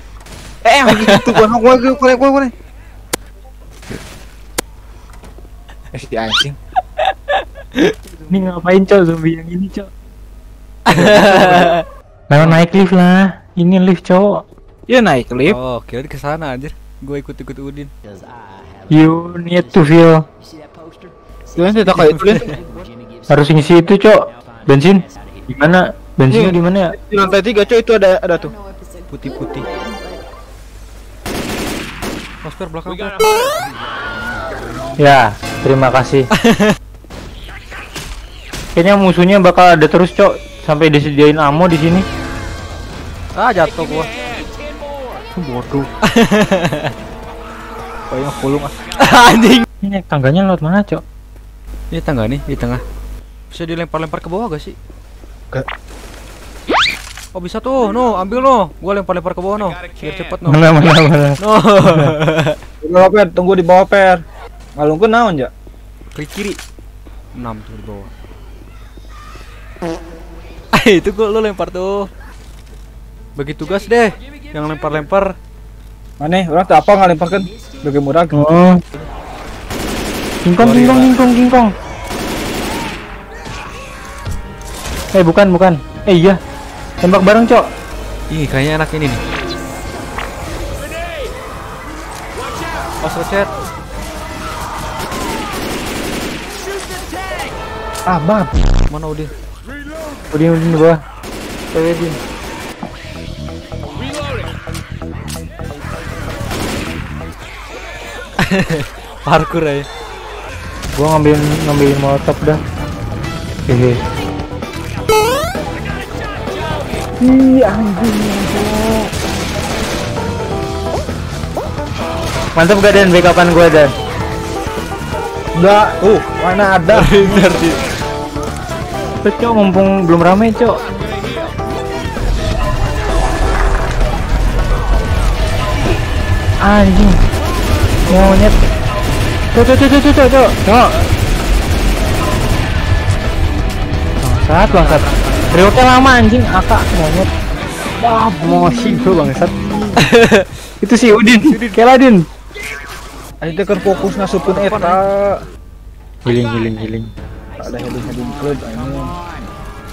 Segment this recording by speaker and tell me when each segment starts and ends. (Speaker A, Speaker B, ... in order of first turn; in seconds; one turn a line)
Speaker A: 0.7-2.5
Speaker B: 0.9-1.4
Speaker A: 6.0-6.5
Speaker B: 7.0-8.0
Speaker C: 8.3-9.9
Speaker B: 10.9-11.8
Speaker C: 10.9-11.5
Speaker C: 12.3-14.4
Speaker B: 12.4-12.7
Speaker A: 14.9-15.6
Speaker B: 15.4-17.9
Speaker C: 18.9-20.2
Speaker A: 21.6-22.4
Speaker B: 22.0-22.6
Speaker C: 23.3-26.9
Speaker A: 26.3-28.5
Speaker B: 29.1-29.7
Speaker B: 32.4-33.2
Speaker C: 35.0-36.3
Speaker B: 36.5-36.8
Speaker C: 38.8-42.1
Speaker B: 43.4-44.1
Speaker A: 45.4-45.9
Speaker B: 46.0-46.9
Speaker A: 48.1-48.8
Speaker B: 49.0-49.7
Speaker C: 49.8-51.0
Speaker B: 51.9-52.8
Speaker B: 53.5-54.8
Speaker B: 57.3-60.7
Speaker C: 60.5-62.1
Speaker B: 61.4-62.6
Speaker A: 62.8-64.2
Speaker A: 64.8-65.5
Speaker B: 66.2-66.6
Speaker B: 67.3-68.1
Speaker B: 70.7-72.1
Speaker B: 73.4-75.3
Speaker A: 76.2-78.5
Speaker C: 78.3-78.8
Speaker C: 80.4-81.7
Speaker B: 80.6-81.2
Speaker C: 85.1-86.4
Speaker C: 87.0-87.7
Speaker B: 88.3-89.2
Speaker B: 93.0-93.5
Speaker A: 98.1-98.6
Speaker B: 98.9-99.3
Speaker C: 100.3-101.0
Speaker C: 101.7-102.2
Speaker B: 108.4-109.8
Speaker C: 110.9-112.6
Speaker C: 113.7-114.0
Speaker A: 117.2-119.1
Speaker C: 122.5-123.9
Speaker A: 125.5-127.5
Speaker B: 126.9-127.8
Speaker C: 129.2-130.8
Speaker C: 136.6-137.2
Speaker C: 138.1-138.6
Speaker C: 139.5-140.9
Speaker C: 144.2-147.3
Speaker B: 144.6-145.8
Speaker C: 148.0-150.0
Speaker B: 150.0-150.5
Speaker C: 150.8-152.2
Speaker B: 151.4-151.8
Speaker A: 153.4-155.4
Speaker B: 154.4-155.0
Speaker C: 156.2-157.1
Speaker A: 157.6-159.1